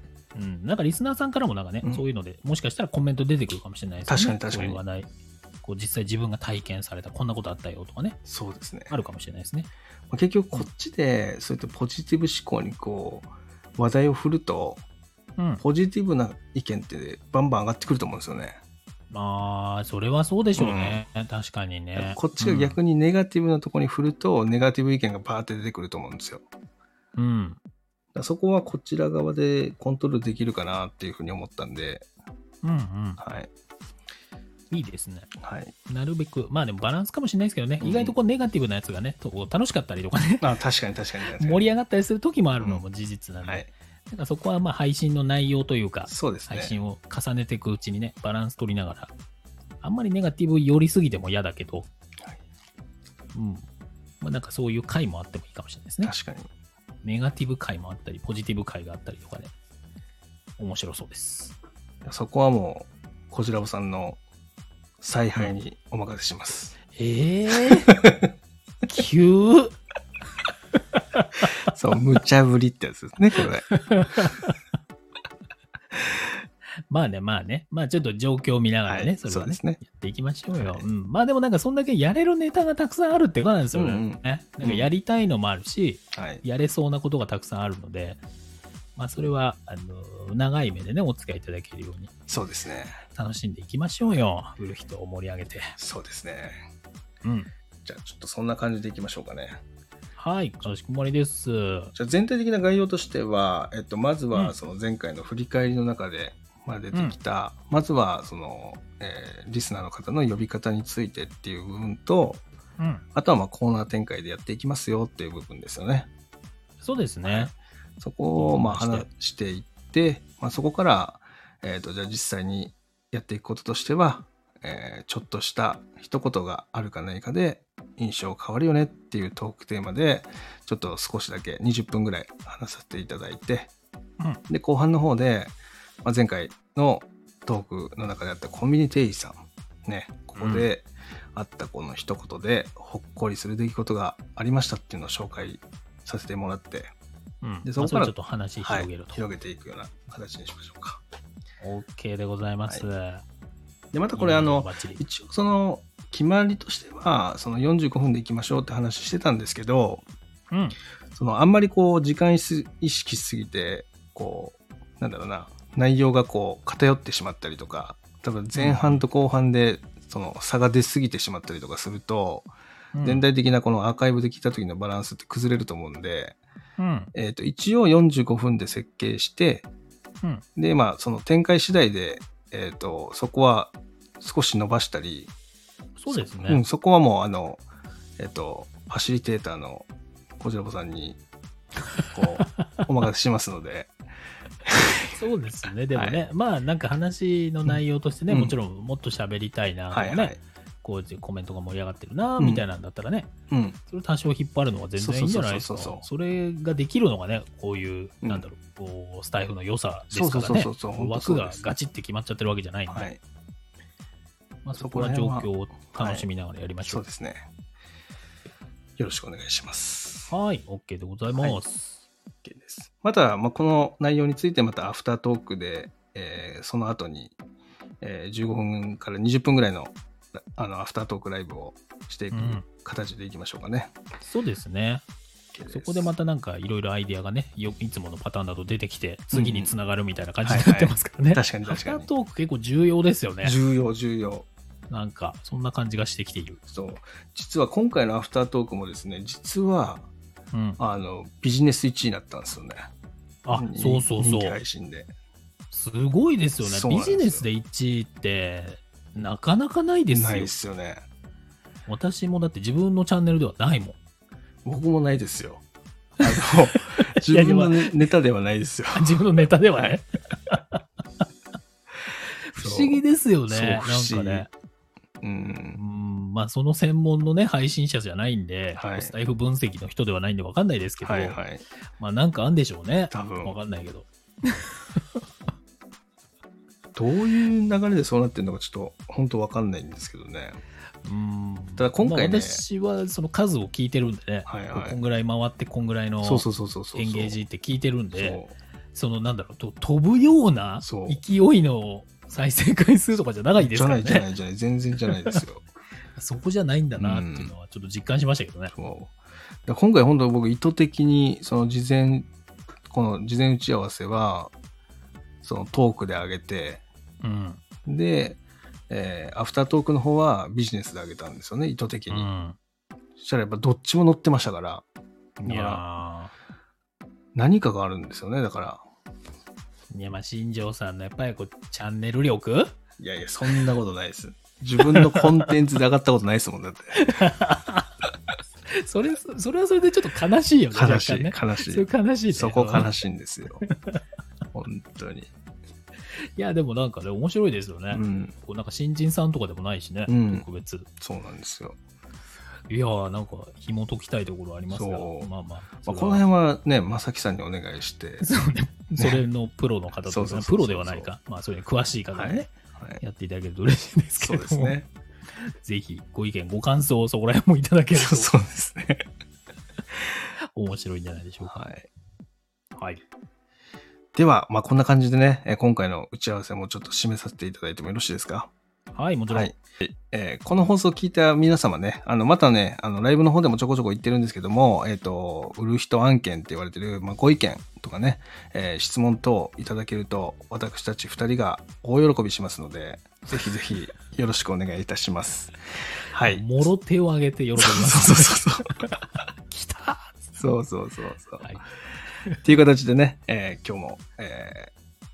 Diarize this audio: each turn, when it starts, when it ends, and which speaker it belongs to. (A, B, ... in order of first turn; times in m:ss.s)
0:00.4-0:05.1 A
0:04.1-0:04.8 B
0:05.6-0:08.2 A
0:08.3-0:08.9 B
0:08.9-0:09.7 A
0:10.1-0:14.8 B
0:15.4-0:15.6 A
0:15.6-0:18.6 B
0:19.1-0:22.8 A
0:20.6-0:21.0 B
0:22.0-0:26.5 B
0:27.2-0:27.6 A
0:28.2-0:32.1 B
0:32.6-0:33.2 A
0:33.2-0:33.5 B
0:34.7-0:35.3 A
0:35.4-0:35.7 B
0:35.9-0:40.5 A
0:37.8-0:38.2 B
0:40.4-0:41.6 B
0:41.4-0:49.1 A
0:46.1-0:46.8 B
0:49.8-0:51.9 A
0:53.3-0:53.6 A
0:54.2-0:56.1 A
0:56.0-0:56.5 B
0:57.0-0:59.5 A
1:00.6-1:01.6 A
1:02.0-1:04.2 B
1:05.0-1:06.8 B
1:07.0-1:08.0 A
1:07.9-1:08.2 B
1:08.9-1:09.7 A
1:11.2-1:11.4 A
1:11.7-1:13.7 B
1:13.7-1:14.6 A
1:16.9-1:28.2 A
1:18.9-1:19.8 B
1:20.5-1:20.9 B
1:23.7-1:24.9 B
1:26.1-1:26.4 B
1:29.0-1:32.1 A
1:32.3-1:33.0 B
1:33.1-1:35.7 A
1:35.8-1:36.6 B
1:37.2-1:37.5 A
1:37.8-1:39.6 B
1:40.2-1:41.9 A
1:42.0-1:52.4 B
1:52.8-1:53.0 A
1:53.2-1:56.1 B
1:56.8-1:57.5 A
1:57.2-2:13.7 B
1:58.4-1:59.1 A
2:14.5-2:26.9 B
2:20.4-2:20.7 A
2:27.4-2:29.2 A
2:27.6-2:31.0 B
2:31.6-2:33.2 A
2:33.9-2:40.0 B
2:34.1-2:35.0 A
2:40.5-2:40.8 A
2:41.1-2:52.5 B
2:48.6-2:49.0 A
2:53.0-2:53.3 A
2:53.0-2:56.4 B
2:56.8-2:57.1 A
2:57.1-2:59.7 B
3:00.6-3:05.3 B
3:06.0-3:06.6 A
3:06.1-3:07.6 B
3:08.2-3:09.9 B
3:10.4-3:11.2 B
3:12.1-3:13.9 B
3:14.7-3:15.1 B
3:15.1-3:23.3 A
3:15.9-3:16.2 B
3:18.3-3:18.6 B
3:19.9-3:20.4 B
3:22.4-3:22.6 B
3:23.5-3:23.8 B
3:23.9-3:33.1 A
3:25.0-3:26.1 B
3:30.1-3:31.6 B
3:32.9-3:33.2 B
3:34.6-3:37.0 A
3:34.8-3:36.2 B
3:36.8-3:37.4 B
3:39.0-3:40.3 B
3:40.3-3:42.0 A
3:41.4-3:41.6 B
3:42.4-3:47.4 B
3:48.0-3:50.0 B
3:50.6-3:53.9 B
3:52.3-3:52.6 A
3:54.2-3:55.0 A
3:55.5-3:56.1 B
3:55.7-4:03.6 A
3:59.3-3:59.7 B
4:00.4-4:02.1 B
4:03.4-4:04.5 B
4:04.9-4:06.6 A
4:06.7-4:10.1 B
4:10.5-4:10.8 A
4:10.8-4:12.9 B
4:13.4-4:14.6 A
4:13.5-4:15.1 B
4:15.7-4:20.5 A
4:16.6-4:17.4 B
4:20.1-4:21.0 B
4:21.9-4:24.0 A
4:24.6-4:25.6 B
4:26.2-4:30.0 B
4:26.3-4:27.9 A
4:28.9-4:30.8 A
4:32.5-4:34.5 A
4:32.6-4:34.5 B
4:35.2-4:35.8 B
4:35.8-4:41.4 A
4:38.8-4:39.1 B
4:41.0-4:41.6 B
4:42.0-4:45.0 A
4:43.1-4:43.6 B
4:47.0-4:50.6 B
4:51.0-4:58.4 A
4:51.8-4:52.6 B
4:54.5-4:55.0 B
4:56.2-4:57.4 B
4:58.1-4:58.5 B
4:58.9-5:04.3 A
5:00.8-5:01.2 B
5:03.6-5:05.6 B
5:06.2-5:08.7 A
5:07.0-5:07.5 B
5:08.7-5:09.1 B
5:09.7-5:12.3 B
5:12.9-5:14.5 B
5:15.4-5:16.8 B
5:17.2-5:17.6 A
5:17.9-5:18.4 B
5:18.9-5:22.3 B
5:22.1-5:22.6 A
5:23.2-5:24.8 B
5:25.4-5:26.3 A
5:25.5-5:25.8 B
5:27.4-5:28.8 B
5:29.9-5:32.7 A
5:33.0-5:37.2 B
5:34.8-5:35.5 A
5:37.0-5:37.9 A
5:38.7-5:43.0 A
5:40.7-5:43.6 B
5:43.7-5:44.0 A
5:44.5-5:45.3 B
5:46.4-5:50.9 A
5:47.9-5:48.4 B
5:50.1-5:50.5 B
5:51.0-5:51.8 B
5:52.7-5:56.2 A
5:54.7-5:55.3 B
5:55.8-5:58.3 B
5:58.2-6:04.8 A
5:59.0-5:59.2 B
6:00.1-6:01.1 B
6:02.1-6:03.0 B
6:04.2-6:04.9 B
6:05.4-6:08.4 A
6:08.0-6:09.0 B
6:10.6-6:11.6 A
6:11.5-6:11.9 B
6:12.8-6:13.0 A
6:14.2-6:18.5 B
6:19.0-6:19.5 A
6:19.3-6:35.6 B
6:36.1-6:36.7 B
6:36.2-6:40.3 A
6:37.6-6:38.7 B
6:40.4-6:41.5 B
6:42.4-6:44.7 B